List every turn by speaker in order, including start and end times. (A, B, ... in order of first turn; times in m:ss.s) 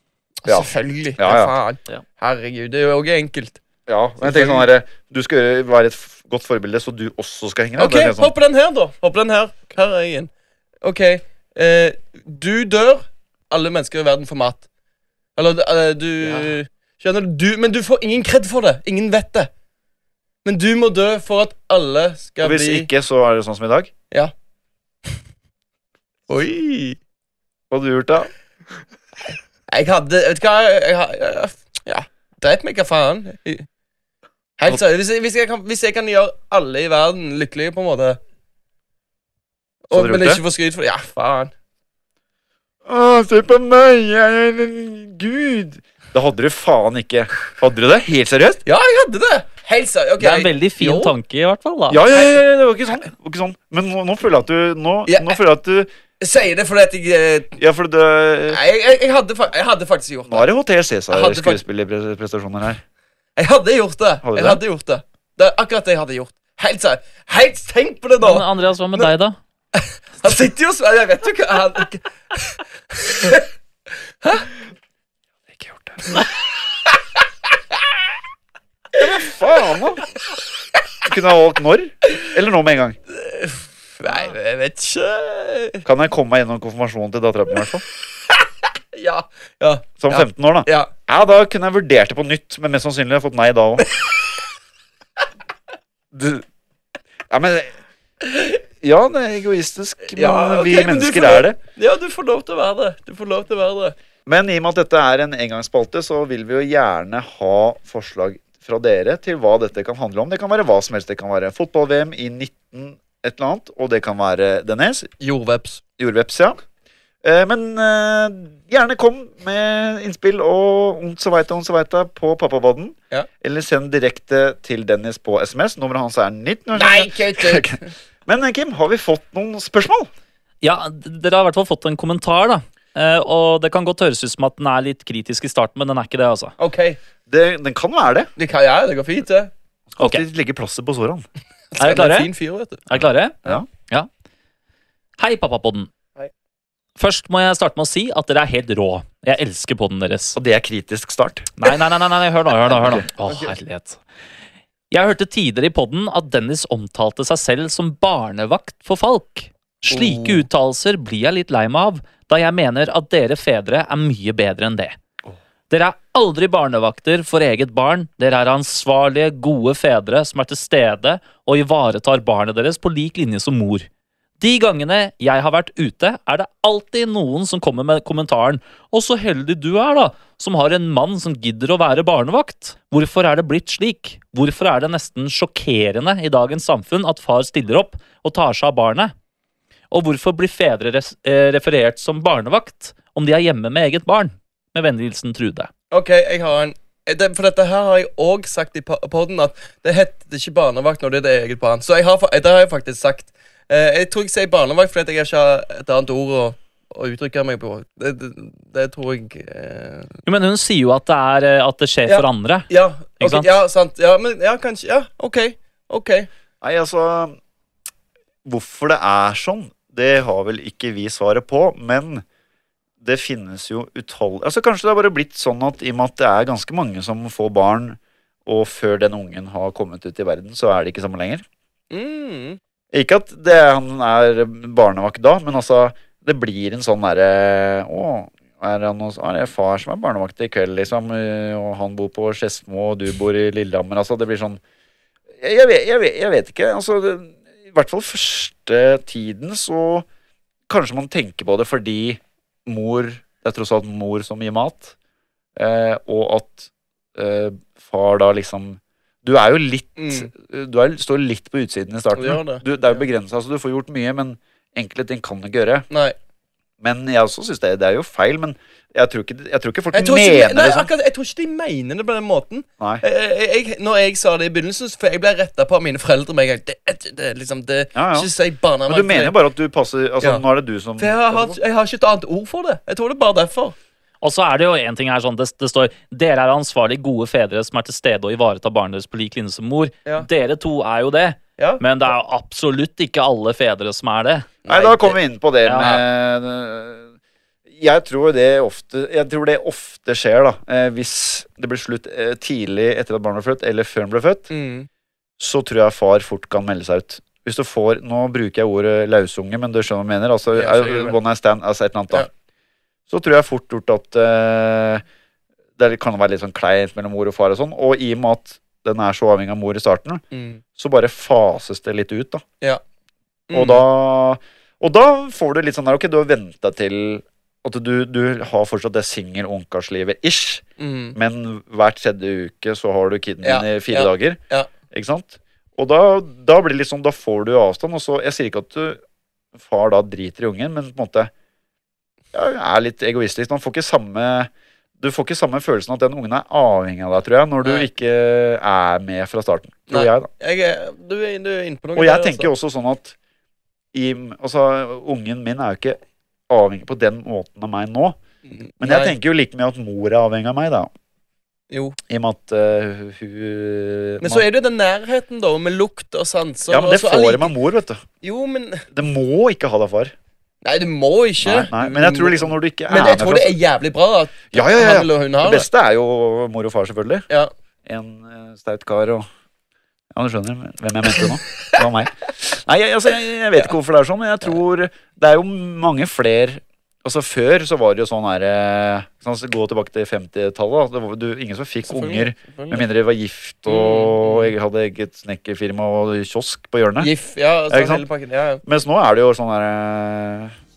0:00.4-0:03.6 A
0:00.5-0:01.5 B
0:03.9-0:08.3 B
0:04.2-0:04.7 A
0:07.8-0:10.3 A
0:10.8-0:14.6 A
0:15.4-0:19.5 A
0:20.4-0:22.9 A
0:22.4-0:23.9 B
0:26.3-0:27.0 A
0:27.7-0:28.3 B
0:29.7-0:33.7 A
0:34.6-0:38.2 A
0:39.9-0:41.5 A
0:39.9-0:40.4 B
0:42.9-0:48.6 B
0:48.7-0:51.2 A
0:50.2-0:52.2 C
0:51.9-0:55.9 B
0:55.1-0:55.4 A
0:56.2-0:57.6 A
0:57.6-0:58.6 B
0:58.5-1:00.5 A
1:00.3-1:02.8 B
1:01.1-1:01.6 A
1:03.4-1:08.5 A
1:04.2-1:04.6 B
1:08.2-1:09.4 C
1:09.8-1:13.5 A
1:14.2-1:14.5 A
1:15.5-1:16.3 B
1:19.0-1:20.0 B
1:21.0-1:23.0 B
1:23.1-1:25.8 A
1:25.8-1:27.8 B
1:28.9-1:30.9 A
1:30.0-1:33.9 B
1:33.8-1:34.2 A
1:36.1-1:36.4 B
1:37.3-1:37.7 B
1:38.3-1:38.6 A
1:38.8-1:41.6 B
1:40.1-1:44.0 A
1:44.3-1:55.1 B
1:55.2-1:55.8 A
1:56.0-1:56.6 B
1:57.2-2:10.1 B
2:06.8-2:07.9 A
2:10.6-2:16.5 C
2:16.6-2:17.0 A
2:17.3-2:18.3 B
2:18.4-2:19.5 A
2:19.9-2:21.2 B
2:20.0-2:20.2 C
2:21.7-2:22.9 A
2:21.8-2:22.3 C
2:22.9-2:24.1 C
2:25.2-2:25.9 C
2:27.0-2:30.4 C
2:30.4-2:31.5 B
2:31.6-2:34.0 C
2:32.7-2:33.1 B
2:33.3-2:33.5 A
2:34.9-2:45.0 C
2:39.9-2:40.5 A
2:45.7-2:53.9 C
2:54.4-3:09.1 C
3:09.9-3:15.7 C
3:15.9-3:30.2 A
3:30.3-3:32.7 C
3:32.1-3:36.3 A
3:33.2-3:33.5 C
3:36.6-3:37.4 B
3:38.4-3:42.2 B
3:43.0-3:51.4 B
3:51.9-3:52.6 A
3:52.9-4:04.6 B
4:05.4-4:10.1 B
4:10.7-4:15.0 B
4:15.6-4:25.9 B
4:20.0-4:20.3 A
4:22.2-4:23.0 A
4:25.9-4:26.2 A
4:26.8-4:30.9 B
4:29.9-4:39.4 A
4:38.0-4:38.3 B
4:38.9-4:41.6 B
4:41.0-4:43.8 A
4:44.2-4:54.5 C
4:54.6-4:55.2 A
4:54.7-4:57.1 B
4:55.6-4:56.0 C
4:57.7-5:04.5 B
5:04.5-5:04.9 A
5:05.4-5:12.3 B
5:10.5-5:11.2 A
5:13.1-5:15.0 B
5:15.8-5:20.2 B
5:20.3-5:20.6 A
5:20.8-5:22.4 B
5:23.5-5:23.9 A
5:23.5-5:30.6 B
5:30.8-5:31.2 A
5:31.2-5:34.4 B
5:33.4-5:34.7 A
5:34.9-5:39.0 B
5:39.6-5:41.3 B
5:42.3-5:50.3 B
5:49.9-5:52.5 A
5:52.0-5:53.2 B
5:53.9-5:58.2 B
5:58.5-5:59.2 A
5:58.8-6:00.9 B
6:01.7-6:02.0 A
6:02.1-6:04.4 B
6:04.2-6:07.5 A
6:06.7-6:08.0 B
6:08.2-6:08.9 A
6:08.9-6:10.1 B
6:10.6-6:15.7 A
6:11.4-6:13.6 B
6:14.5-6:17.2 B
6:17.9-6:19.3 B
6:20.1-6:37.1 B
6:31.8-6:32.8 A
6:33.7-6:34.5 A
6:37.0-6:38.6 A
6:37.7-6:38.0 B
6:38.6-6:40.5 B